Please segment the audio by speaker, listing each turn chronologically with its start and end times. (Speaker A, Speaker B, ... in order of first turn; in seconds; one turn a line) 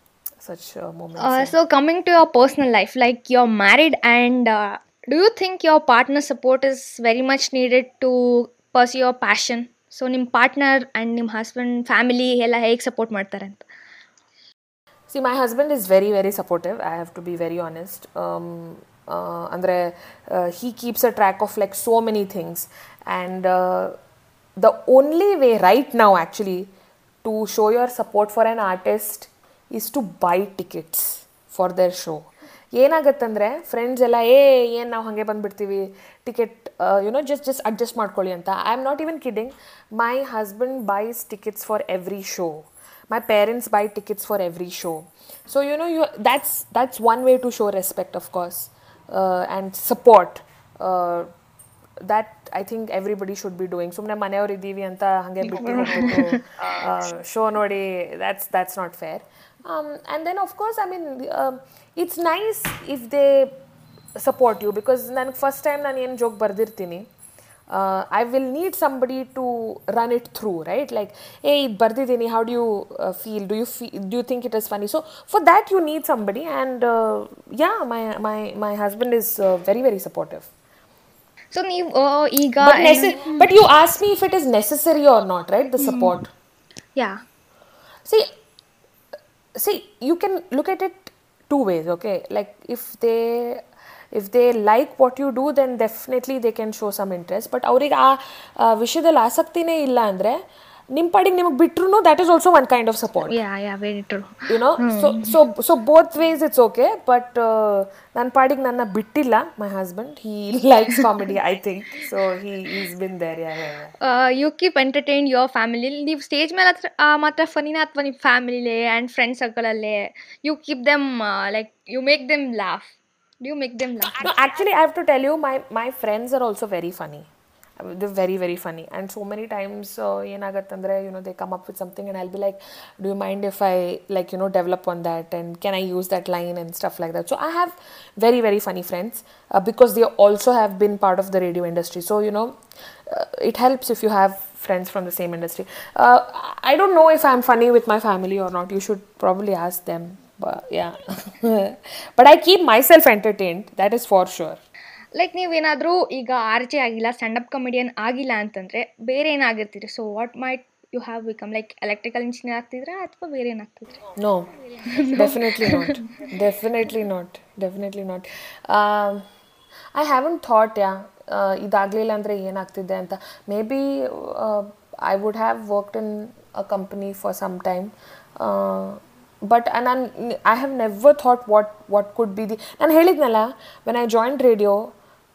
Speaker A: 0.4-1.5
Speaker B: 1.2-13.6
Speaker A: 15.1-23.9
Speaker A: 24.6-26.7
Speaker A: 27.2-51.3
Speaker A: 52.0-63.5
Speaker B: 55.5-56.4
Speaker A: 64.2-67.1
Speaker A: 67.7-80.5
Speaker B: 81.5-83.4
Speaker A: 82.6-86.3
Speaker B: 85.8-86.2
Speaker B: 87.0-87.2
Speaker A: 88.0-88.3
Speaker A: 89.5-103.4
Speaker B: 103.2-105.4
Speaker A: 104.5-113.9
Speaker B: 114.0-124.3
Speaker A: 124.1-127.3
Speaker A: 127.8-154.6
Speaker B: 155.1-163.9
Speaker A: 164.2-164.5
Speaker B: 164.8-166.1
Speaker A: 165.1-169.2
Speaker A: 169.9-184.9